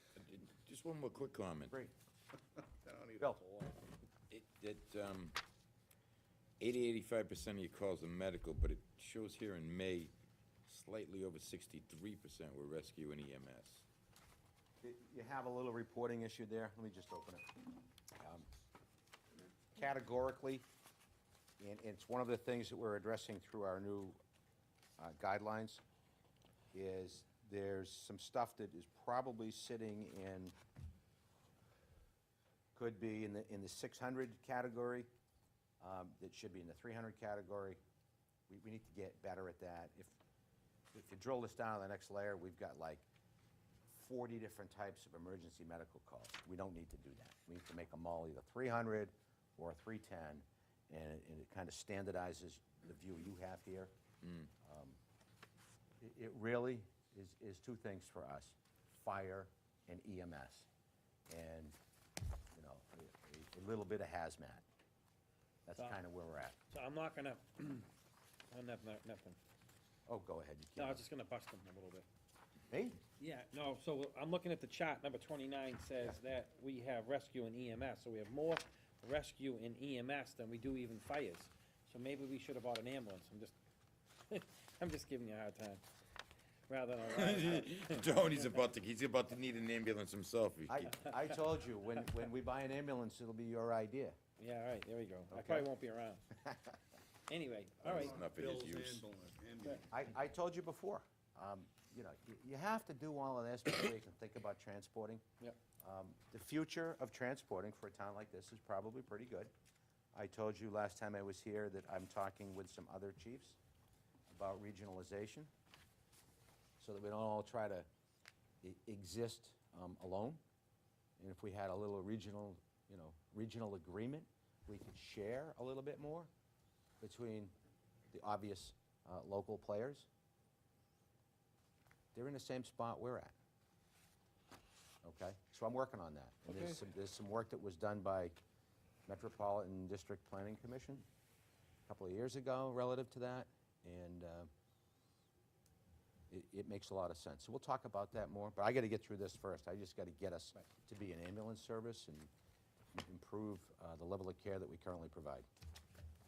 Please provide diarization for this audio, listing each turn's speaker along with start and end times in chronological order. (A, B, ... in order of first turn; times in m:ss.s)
0:00.2-0:01.8 A
0:02.6-0:03.8 B
0:04.3-0:05.4 A
0:06.6-0:10.1 A
0:10.7-0:13.8 A
0:14.8-0:17.5 C
0:18.2-0:18.4 C
0:19.8-0:20.7 C
0:21.6-0:24.2 C
0:25.0-0:25.8 C
0:26.7-0:30.6 C
0:32.7-0:35.1 C
0:35.8-0:37.8 C
0:38.5-0:40.2 C
0:40.9-0:43.1 C
0:43.9-0:53.9 C
0:54.2-0:54.5 A
0:54.6-0:55.0 C
0:56.0-1:00.7 C
1:01.3-1:01.8 C
1:02.5-1:04.6 C
1:05.7-1:06.6 C
1:06.7-1:07.9 D
1:08.5-1:09.4 D
1:10.1-1:11.0 C
1:10.8-1:12.1 D
1:12.7-1:13.0 C
1:13.2-1:23.6 D
1:24.3-1:25.8 D
1:26.7-1:28.5 D
1:27.1-1:31.1 A
1:30.7-1:34.2 C
1:34.4-1:36.2 D
1:35.3-1:35.7 C
1:36.4-1:36.8 C
1:37.3-1:38.2 D
1:37.8-1:39.0 A
1:37.8-1:39.9 B
1:39.9-1:45.2 C
1:45.8-1:49.5 C
1:50.1-1:53.6 C
1:54.3-1:55.5 C
1:56.8-1:57.9 C
1:58.6-2:00.4 C
2:01.2-2:06.3 C
2:07.0-2:07.5 C
2:08.1-2:10.1 C
2:12.1-2:13.3 C
2:15.0-2:18.3 C
2:19.1-2:21.1 C
2:21.9-2:24.5 C
2:26.3-2:32.3 C
2:33.0-2:35.5 C